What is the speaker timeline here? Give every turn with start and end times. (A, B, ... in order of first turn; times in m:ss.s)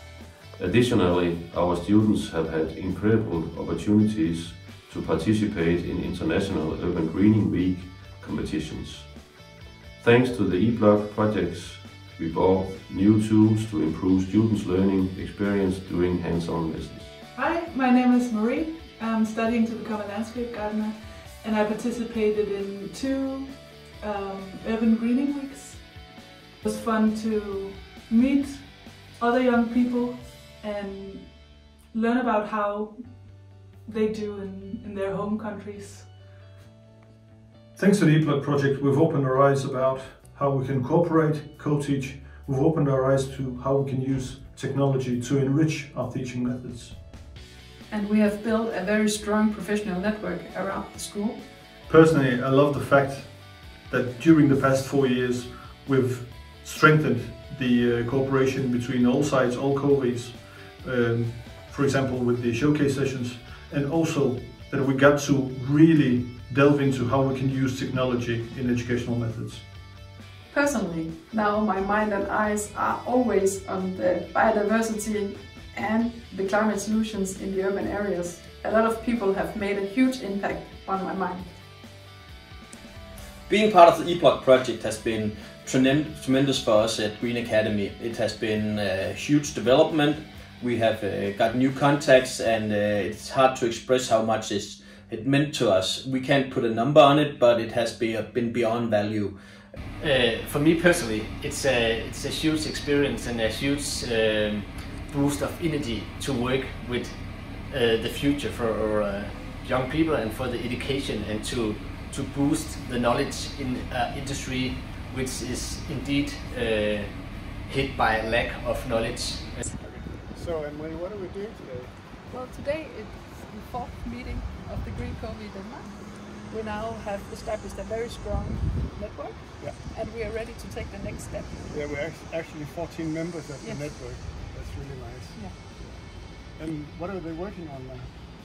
0:00.6-0:09.2 A
0:10.0-0:17.2 A
0:17.3-0:36.2 B
0:37.7-0:47.0 C
0:47.9-0:51.4 D
0:51.9-1:09.7 C
1:10.5-1:21.5 D
1:23.5-1:39.3 E
1:40.0-1:59.6 F
1:59.8-2:02.0 G
2:02.3-2:11.7 H
2:11.7-2:18.2 G
2:13.6-2:14.0 H
2:15.3-2:15.7 H